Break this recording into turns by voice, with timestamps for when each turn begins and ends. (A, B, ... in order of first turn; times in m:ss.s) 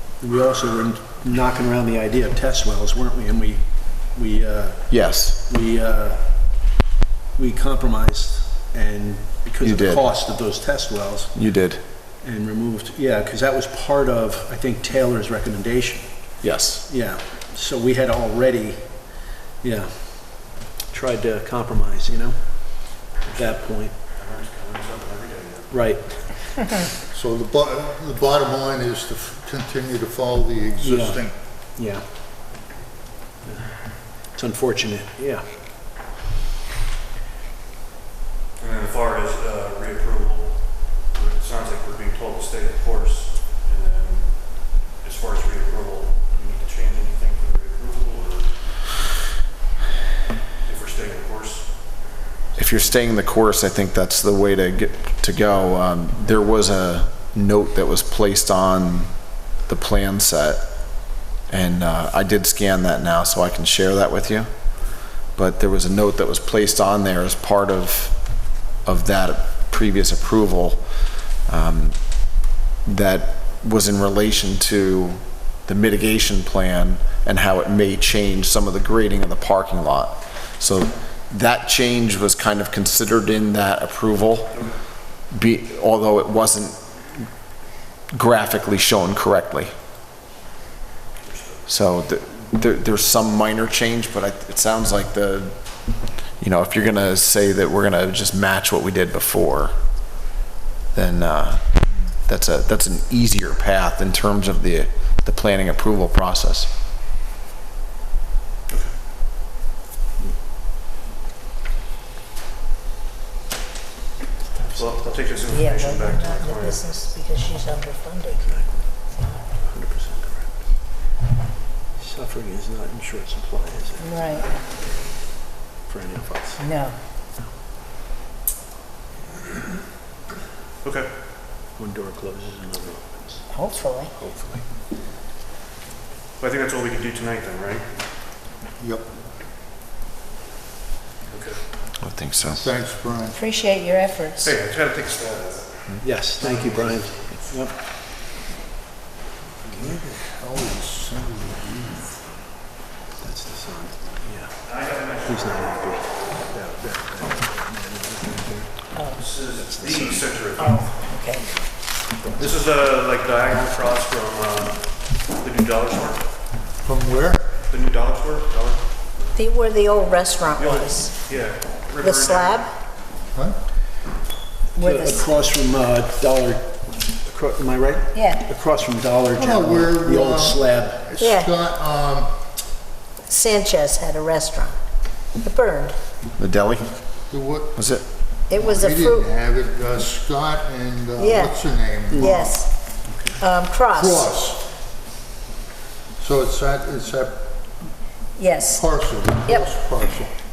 0:00.2-0:06.7 A
0:04.9-0:05.4 B
0:07.4-0:11.3 A
0:09.6-0:10.0 B
0:11.4-0:11.8 B
0:12.2-0:16.1 A
0:16.4-0:16.8 B
0:16.9-0:19.0 A
0:19.6-0:24.0 A
0:23.2-0:23.6 C
0:24.1-0:25.7 C
0:25.7-0:26.7 A
0:27.1-0:31.3 D
0:30.8-0:31.2 A
0:31.8-0:32.0 A
0:33.4-0:35.5 A
0:38.6-0:48.5 C
0:50.6-0:51.7 C
0:52.6-1:04.5 B
1:05.4-1:10.8 B
1:11.5-1:24.5 B
1:25.3-1:26.8 B
1:28.1-1:29.7 B
1:31.2-1:31.6 C
1:31.7-1:35.6 B
1:36.4-1:39.7 B
1:40.9-1:41.6 B
1:42.3-1:46.7 B
1:54.5-1:55.6 A
1:54.8-1:56.9 C
1:55.5-1:58.4 E
1:58.4-2:00.6 A
1:59.1-1:59.4 E
2:02.0-2:04.3 A
2:04.0-2:04.5 E
2:05.9-2:06.7 A
2:06.6-2:07.0 E
2:10.8-2:11.1 C
2:11.8-2:13.5 A
2:13.5-2:14.1 E
2:16.4-2:17.9 C
2:18.8-2:19.1 D
2:21.3-2:21.6 C
2:22.0-2:22.6 B
2:22.6-2:23.4 D
2:23.4-2:24.5 E
2:24.4-2:27.4 C
2:26.0-2:27.7 A
2:29.6-2:30.2 A
2:30.3-2:32.2 D
2:33.2-2:34.6 A
2:34.6-2:36.3 C
2:35.2-2:38.8 A
2:38.9-2:39.2 E
2:39.2-2:40.9 C
2:39.5-2:40.4 A
2:40.6-2:41.5 E
2:41.3-2:41.6 A
2:42.4-2:46.4 C
2:46.8-2:47.5 D
2:47.7-2:48.8 C
2:49.4-2:51.2 E
2:50.6-2:52.7 C
2:52.0-2:52.7 E
2:54.8-2:55.3 E
2:54.8-3:01.2 A
2:58.1-2:58.5 E
2:59.4-3:02.3 D
3:01.2-3:01.5 E
3:03.3-3:04.8 E
3:05.4-3:06.0 E
3:06.4-3:06.9 B
3:07.3-3:07.8 D
3:07.8-3:08.0 B
3:08.5-3:09.3 E
3:08.5-3:12.6 D
3:11.2-3:11.6 E
3:12.1-3:12.4 A
3:12.2-3:12.7 E
3:13.0-3:13.4 A
3:13.4-3:14.3 E
3:13.9-3:14.7 D
3:16.2-3:17.5 D
3:18.4-3:18.8 E
3:18.7-3:20.3 D
3:19.4-3:19.7 E